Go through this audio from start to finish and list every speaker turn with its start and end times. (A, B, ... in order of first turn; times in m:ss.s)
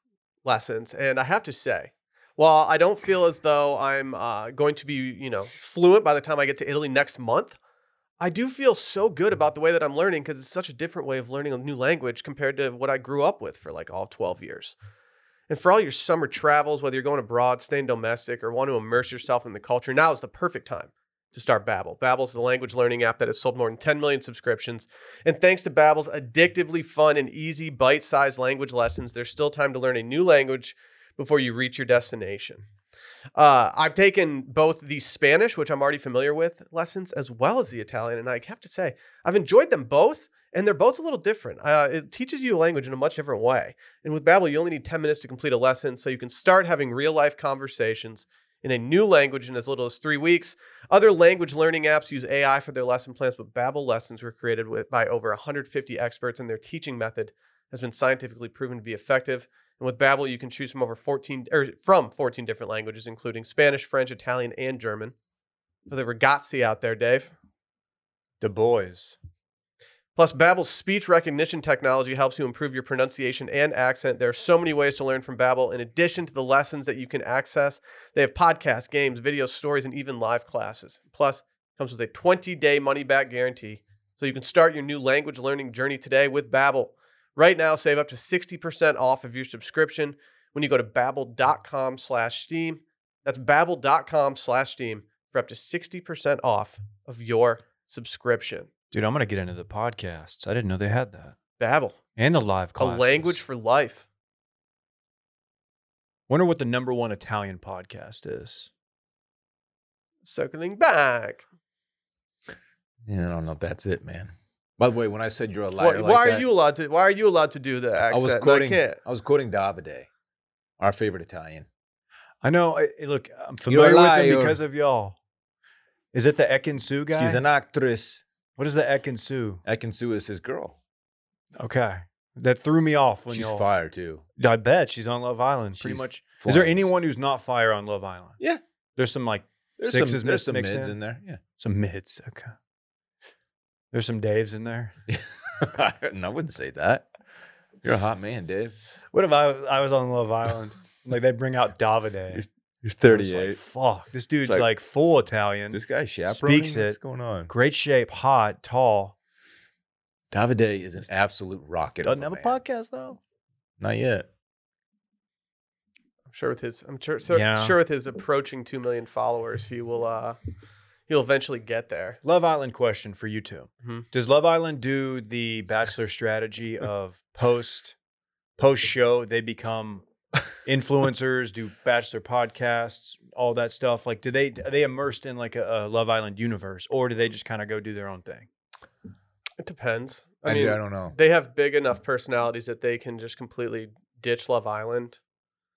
0:00.4-0:07.6 A
0:08.2-0:14.8 A
0:15.5-0:32.6 A
0:33.4-1:05.1 A
1:05.9-1:07.3 A
1:08.4-1:09.2 B
1:10.2-1:38.7 A
1:38.9-1:41.4 B
1:41.6-1:42.0 A
1:42.2-1:43.4 B
1:42.8-1:44.0 A
1:46.3-1:48.7 B
1:50.2-1:51.5 A
1:53.0-1:56.4 C
1:55.8-1:59.0 A
1:58.1-2:00.1 C
2:00.8-2:01.7 C
2:02.4-2:05.2 B
2:03.7-2:04.6 C
2:06.1-2:07.4 B
2:07.1-2:08.2 C
2:08.6-2:09.6 B
2:09.6-2:10.8 C
2:11.6-2:13.6 B
2:13.3-2:14.2 C
2:14.4-2:18.4 B
2:15.8-2:16.9 C
2:19.0-2:21.0 B
2:19.8-2:21.4 C
2:21.6-2:22.5 B
2:23.9-2:25.0 B
2:25.1-2:27.1 C
2:27.8-2:28.8 C
2:29.1-2:32.4 B
2:32.3-2:33.6 C
2:33.1-2:39.1 B
2:35.7-2:37.5 C
2:40.3-2:42.6 C
2:42.0-2:43.2 B
2:43.8-2:44.3 C
2:46.3-2:50.4 A
2:47.3-2:47.8 B
2:51.1-2:52.2 A
2:52.2-2:58.0 B
2:58.6-3:00.0 B
3:00.6-3:08.5 B
3:09.6-3:15.2 A
3:10.4-3:11.1 C